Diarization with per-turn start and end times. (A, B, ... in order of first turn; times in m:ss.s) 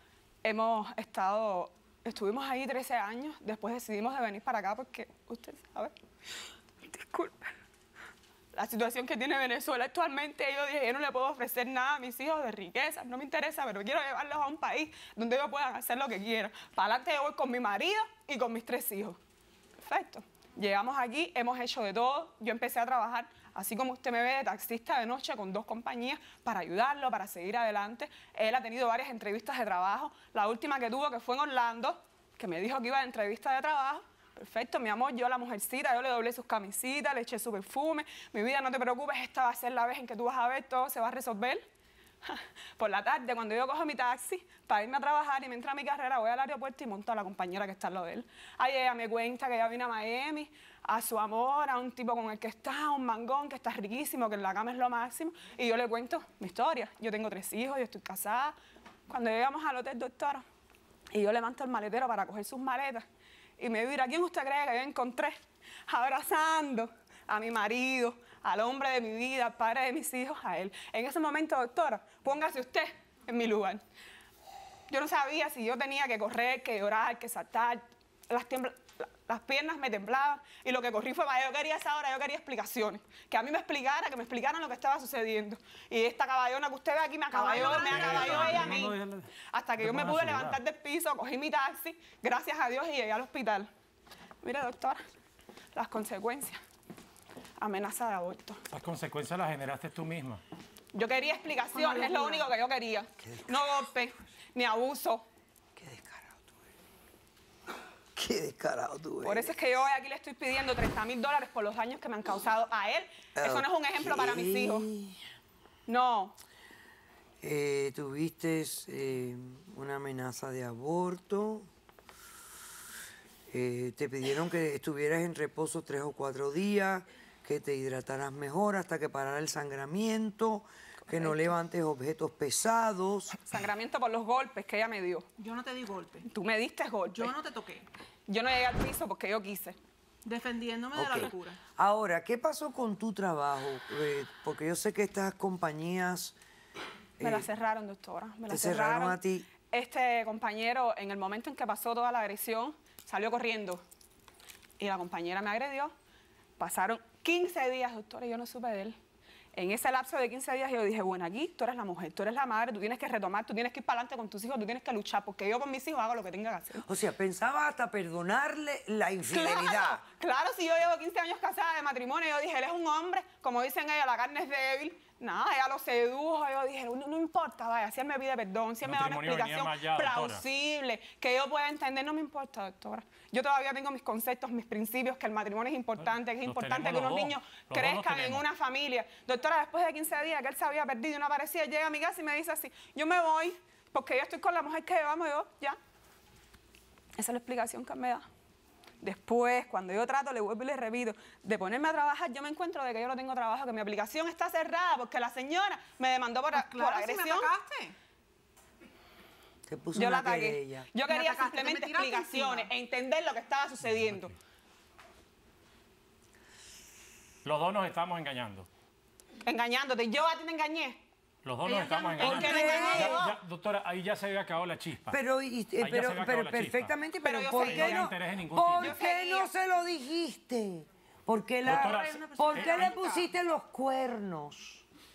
0:00.4-0:05.9 A
0:06.9-0:07.5 A
0:08.5-0:19.2 A
0:19.8-0:41.6 A
0:42.2-0:58.6 A
0:59.1-1:00.4 A
1:01.1-1:03.0 A
1:03.6-1:05.4 A
1:05.9-1:13.8 A
1:14.9-1:29.0 A
1:27.3-1:28.7 B
1:27.5-1:29.3 C
1:29.5-1:33.7 A
1:29.8-1:30.6 C
1:34.4-1:35.0 A
1:35.7-1:36.6 A
1:37.6-1:38.6 A
1:38.7-1:40.4 C
1:40.9-1:45.2 A
1:41.7-1:42.5 B
1:43.2-1:43.6 D
1:45.8-1:46.6 D
1:48.2-1:49.6 D
1:49.2-1:54.9 A
1:53.4-1:55.2 D
1:55.9-1:56.4 A
1:57.4-2:01.7 D
2:03.5-2:13.4 D
2:11.1-2:11.5 A
2:13.4-2:15.2 A
2:15.4-2:16.3 B
2:16.2-2:17.4 A
2:17.1-2:17.9 B
2:18.3-2:19.8 A
2:20.2-2:21.6 B
2:20.9-2:26.4 D
2:27.2-2:27.5 D
2:27.2-2:29.2 A
2:28.5-2:29.5 D
2:29.7-2:33.8 A
2:34.8-2:35.9 A
2:36.6-2:39.0 A
2:39.5-2:46.8 A
2:46.8-2:50.0 D
2:49.3-3:15.8 A
2:58.8-3:00.4 C
3:06.4-3:08.4 C
3:17.2-3:18.2 A
3:19.0-3:27.5 A
3:26.5-3:28.0 B
3:29.7-3:30.9 D
3:29.9-3:34.3 A
3:31.0-3:32.7 B
3:37.4-3:38.7 C
3:39.4-3:41.0 A
3:41.4-3:45.2 C
3:41.6-3:43.1 B
3:42.2-3:43.4 A
3:42.2-3:43.3 D
3:45.1-3:54.8 D
3:45.8-3:46.9 C
3:47.2-3:48.1 A
3:47.6-3:49.0 C
3:48.8-3:49.5 A
3:51.6-3:52.9 C
3:51.7-3:53.3 B